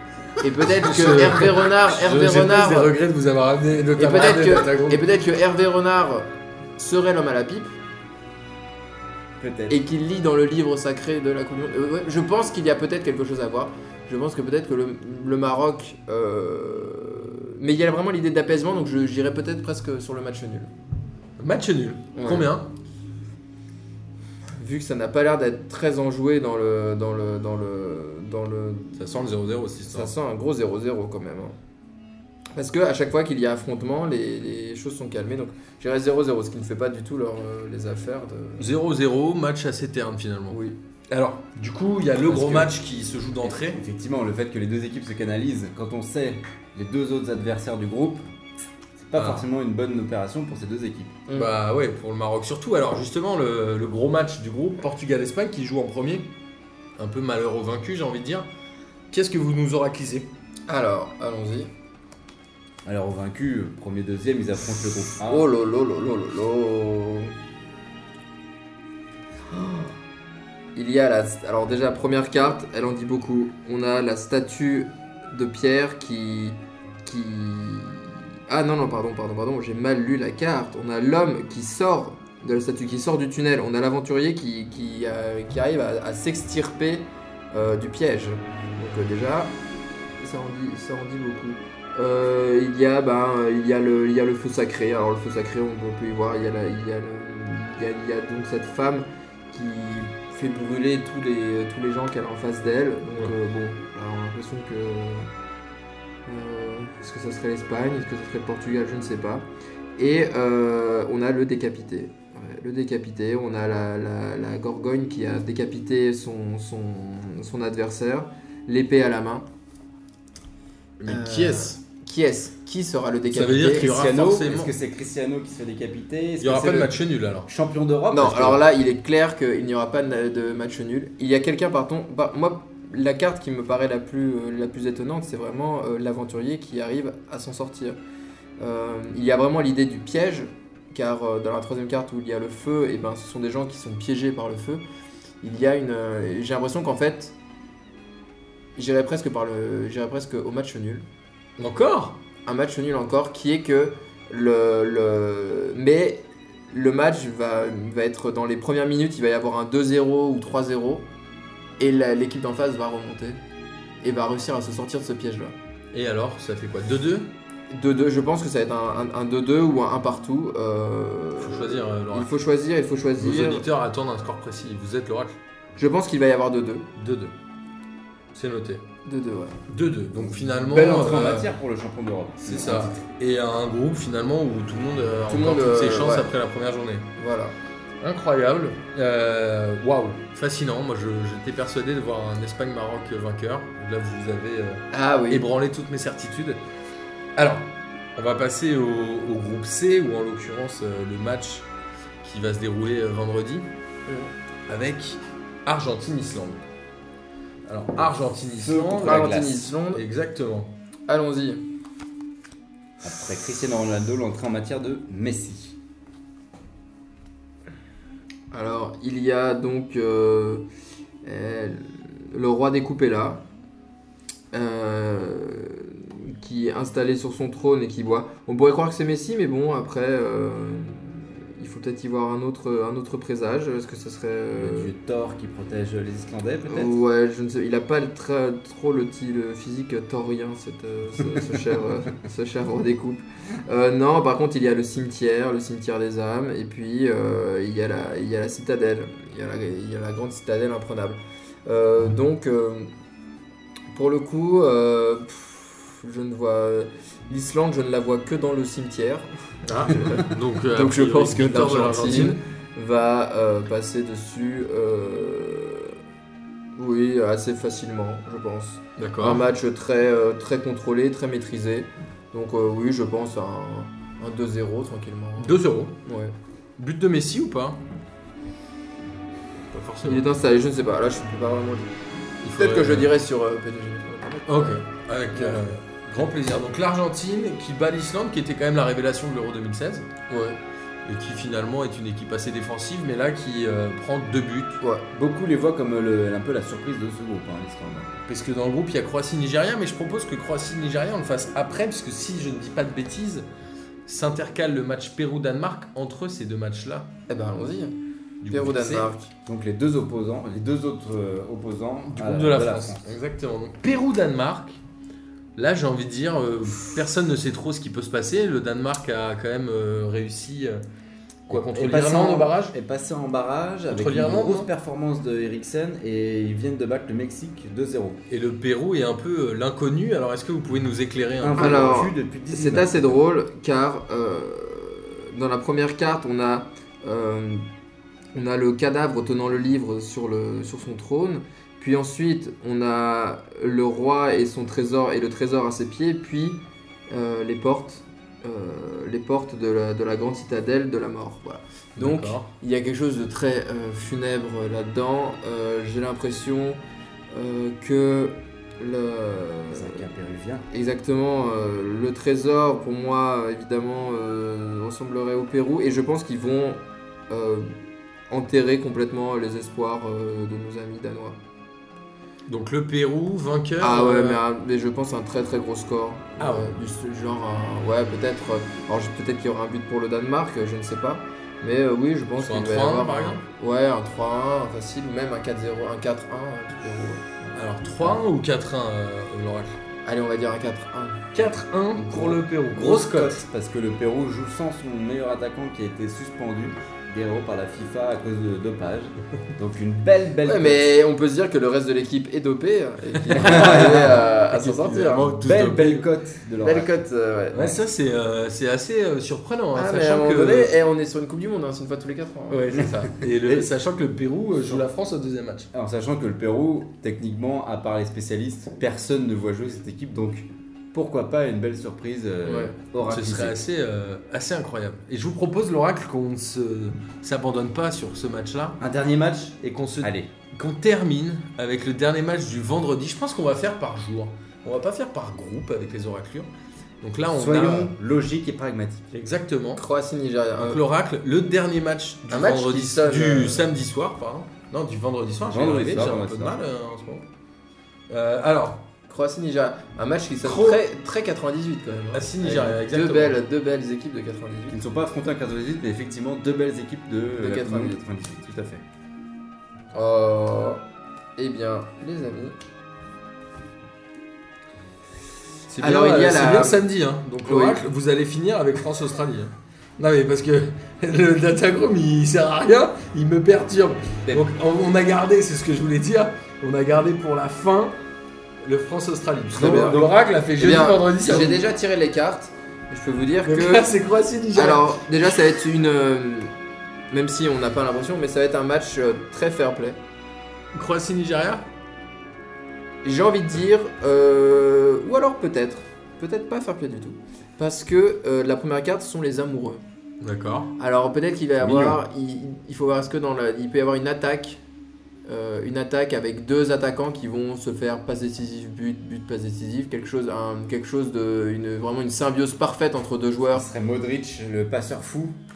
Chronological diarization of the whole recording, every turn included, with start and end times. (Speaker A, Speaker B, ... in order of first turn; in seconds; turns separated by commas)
Speaker A: 0.4-2.9, Speaker B: 0.8-5.0, Speaker A: 4.0-7.8, Speaker C: 9.4-9.8, Speaker A: 9.7-20.7, Speaker B: 21.4-22.7, Speaker A: 22.1-22.5, Speaker A: 24.6-29.0, Speaker B: 29.0-30.1, Speaker A: 29.9-31.6, Speaker A: 32.5-38.7, Speaker B: 38.6-40.6, Speaker A: 40.5-40.8, Speaker B: 41.1-43.8, Speaker C: 42.3-42.7, Speaker C: 43.6-48.2, Speaker C: 49.0-51.2, Speaker B: 49.1-49.5, Speaker A: 51.3-51.5, Speaker B: 51.3-56.3, Speaker B: 57.0-58.5, Speaker B: 59.1-60.3, Speaker A: 60.7-61.7, Speaker C: 62.9-65.5, Speaker A: 65.3-67.4, Speaker A: 69.5-70.0, Speaker A: 70.8-89.6, Speaker A: 90.2-105.3, Speaker A: 106.3-119.5, Speaker B: 121.0-121.8, Speaker A: 121.1-123.9, Speaker B: 123.3-124.7, Speaker C: 123.7-126.9, Speaker B: 126.4-127.5, Speaker C: 127.5-128.6, Speaker A: 128.1-138.0, Speaker A: 138.6-144.8, Speaker A: 145.4-147.3, Speaker A: 148.8-151.1, Speaker B: 151.6-152.2, Speaker A: 152.4-161.1, Speaker A: 161.8-163.4, Speaker A: 164.0-165.6, Speaker B: 165.9-167.3, Speaker A: 167.7-173.7, Speaker B: 171.4-172.3, Speaker B: 173.2-175.4, Speaker A: 175.8-176.9, Speaker B: 177.0-177.3, Speaker B: 178.3-178.8, Speaker A: 179.1-179.6, Speaker B: 179.7-181.5, Speaker C: 180.2-183.0, Speaker B: 182.4-187.1, Speaker A: 185.3-186.3, Speaker A: 187.2-187.6, Speaker B: 188.0-196.6, Speaker A: 194.9-195.5, Speaker B: 197.4-201.7, Speaker B: 202.2-203.7, Speaker B: 204.7-206.6, Speaker B: 207.7-210.7, Speaker C: 208.5-209.7, Speaker A: 209.0-210.1, Speaker A: 211.1-211.6, Speaker C: 213.0-215.8, Speaker A: 218.5-220.6, Speaker A: 221.2-223.4, Speaker A: 224.5-234.9, Speaker C: 234.5-236.9, Speaker A: 236.7-252.9, Speaker A: 253.9-266.0, Speaker B: 259.7-262.4, Speaker A: 266.8-276.3, Speaker B: 269.0-269.4, Speaker B: 275.4-275.9, Speaker B: 276.8-277.8, Speaker B: 279.7-280.2, Speaker A: 280.0-282.0, Speaker B: 282.4-283.1, Speaker A: 282.6-285.6, Speaker B: 284.5-290.1, Speaker A: 290.3-290.6, Speaker B: 291.1-294.8, Speaker C: 295.1-298.1, Speaker B: 298.3-303.5, Speaker B: 304.1-307.1, Speaker A: 307.3-307.9, Speaker B: 308.4-309.1, Speaker A: 308.5-309.3, Speaker C: 309.5-313.1, Speaker B: 312.1-314.8, Speaker B: 315.6-320.8, Speaker B: 321.5-322.8, Speaker C: 321.5-328.2, Speaker B: 323.9-324.7, Speaker B: 328.3-331.9, Speaker C: 331.4-333.2, Speaker A: 331.6-337.6, Speaker A: 338.4-356.8, Speaker B: 352.0-352.5, Speaker A: 357.3-360.0, Speaker C: 359.7-360.7, Speaker A: 360.7-367.7, Speaker A: 368.3-371.4, Speaker B: 372.5-374.4, Speaker A: 373.8-388.2, Speaker B: 376.4-376.7, Speaker B: 382.4-383.4, Speaker B: 387.6-389.8, Speaker A: 390.1-391.3, Speaker B: 391.3-393.4, Speaker C: 391.9-401.0, Speaker A: 400.4-405.4, Speaker B: 403.1-406.1, Speaker C: 403.4-404.2, Speaker C: 405.4-407.0, Speaker A: 406.6-407.8, Speaker B: 407.5-410.7, Speaker A: 409.8-412.8, Speaker B: 412.5-415.7, Speaker C: 412.8-413.7, Speaker C: 415.7-423.6, Speaker A: 422.4-422.7, Speaker B: 423.0-428.8, Speaker C: 428.8-430.3, Speaker B: 429.6-436.5, Speaker B: 437.0-437.9, Speaker C: 437.3-439.1, Speaker B: 439.1-439.8, Speaker A: 439.8-440.8, Speaker B: 440.6-447.3, Speaker A: 442.3-443.7, Speaker C: 445.5-446.6, Speaker B: 448.1-448.9, Speaker A: 449.1-454.8, Speaker B: 450.4-450.8, Speaker B: 452.1-453.4, Speaker C: 454.7-458.8, Speaker A: 457.4-458.0, Speaker A: 459.9-460.8, Speaker A: 461.4-462.6, Speaker B: 465.7-478.0, Speaker A: 465.8-466.9, Speaker A: 467.4-467.9, Speaker B: 478.6-481.6, Speaker A: 479.5-480.0, Speaker C: 479.6-480.1, Speaker A: 480.6-483.9, Speaker B: 483.4-485.0, Speaker A: 484.6-486.5, Speaker A: 487.1-490.0, Speaker B: 490.7-491.7, Speaker A: 493.0-499.8, Speaker B: 500.2-500.7, Speaker A: 500.8-504.6, Speaker C: 501.6-502.0, Speaker A: 505.3-513.7, Speaker C: 513.5-515.4